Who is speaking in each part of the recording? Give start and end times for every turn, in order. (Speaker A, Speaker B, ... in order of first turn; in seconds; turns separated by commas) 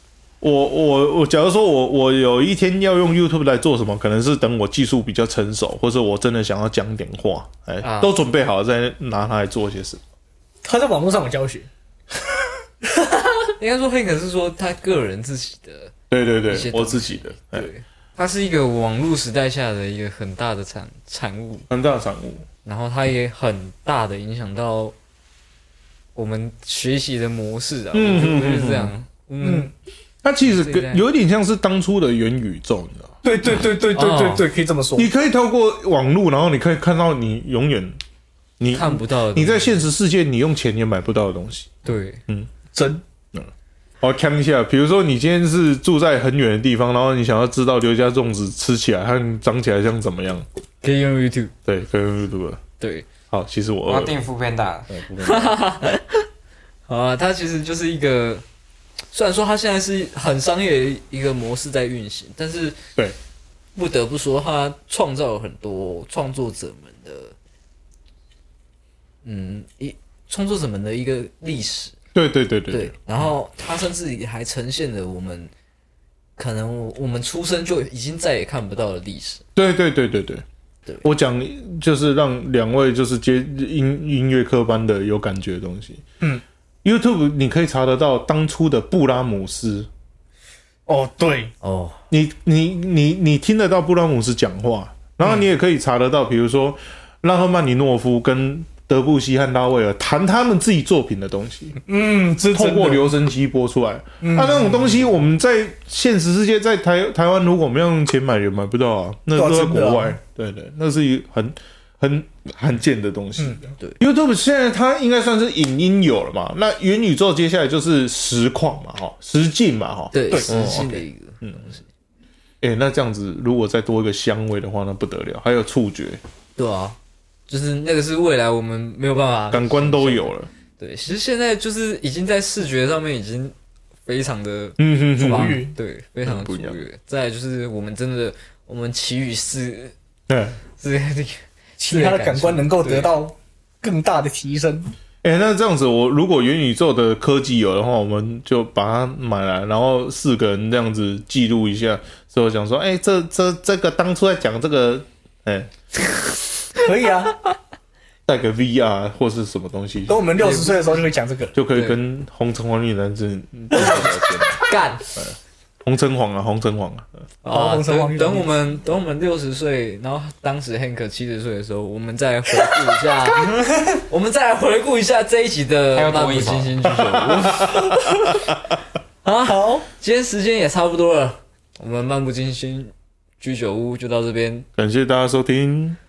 Speaker A: 0.4-10.0, Speaker B: 7.8-8.1, Speaker C: 10.6-11.7, Speaker C: 12.9-13.2, Speaker B: 13.6-15.9, Speaker A: 16.1-17.7, Speaker B: 16.5-21.7, Speaker A: 21.7-22.4, Speaker B: 22.6-24.9, Speaker B: 26.1-29.7, Speaker A: 27.9-28.9, Speaker C: 29.4-29.7, Speaker A: 30.2-33.1, Speaker B: 30.4-31.0, Speaker C: 33.2-35.1, Speaker B: 33.9-34.5, Speaker A: 35.0-38.0, Speaker A: 38.6-42.5, Speaker B: 38.7-39.8, Speaker B: 41.9-42.2, Speaker C: 42.7-43.0, Speaker A: 44.0-50.5, Speaker B: 50.8-51.5, Speaker A: 51.7-52.6, Speaker B: 52.8-53.1, Speaker A: 53.3-54.1, Speaker D: 53.9-54.9, Speaker A: 54.9-55.6, Speaker B: 55.2-56.3, Speaker B: 56.9-58.4, Speaker B: 59.1-62.8, Speaker B: 63.8-67.3, Speaker B: 69.2-72.0, Speaker A: 72.1-73.0, Speaker B: 72.7-75.5, Speaker B: 76.4-79.4, Speaker A: 79.6-80.4, Speaker A: 81.0-86.0, Speaker A: 86.8-89.9, Speaker C: 90.9-91.5, Speaker B: 91.6-92.0, Speaker A: 92.1-101.8, Speaker C: 101.9-103.1, Speaker A: 102.5-121.6, Speaker C: 104.2-105.1, Speaker C: 109.3-110.1, Speaker B: 120.1-121.9, Speaker C: 120.3-120.8, Speaker A: 122.6-126.2, Speaker B: 126.6-127.0, Speaker B: 127.5-133.5, Speaker A: 129.5-130.5, Speaker B: 134.1-139.9, Speaker A: 134.8-135.7, Speaker C: 135.2-135.7, Speaker A: 136.2-136.8, Speaker A: 140.3-140.6, Speaker B: 140.8-143.1, Speaker C: 141.8-144.9, Speaker A: 145.2-155.7, Speaker C: 156.8-157.4, Speaker A: 158.3-160.3, Speaker C: 160.1-161.5, Speaker B: 160.4-161.0, Speaker A: 161.6-167.1, Speaker B: 161.7-162.0, Speaker B: 164.6-165.1, Speaker B: 167.4-178.4, Speaker C: 167.5-168.5, Speaker D: 175.9-177.0, Speaker B: 179.2-184.7, Speaker C: 179.4-179.8, Speaker A: 184.8-186.0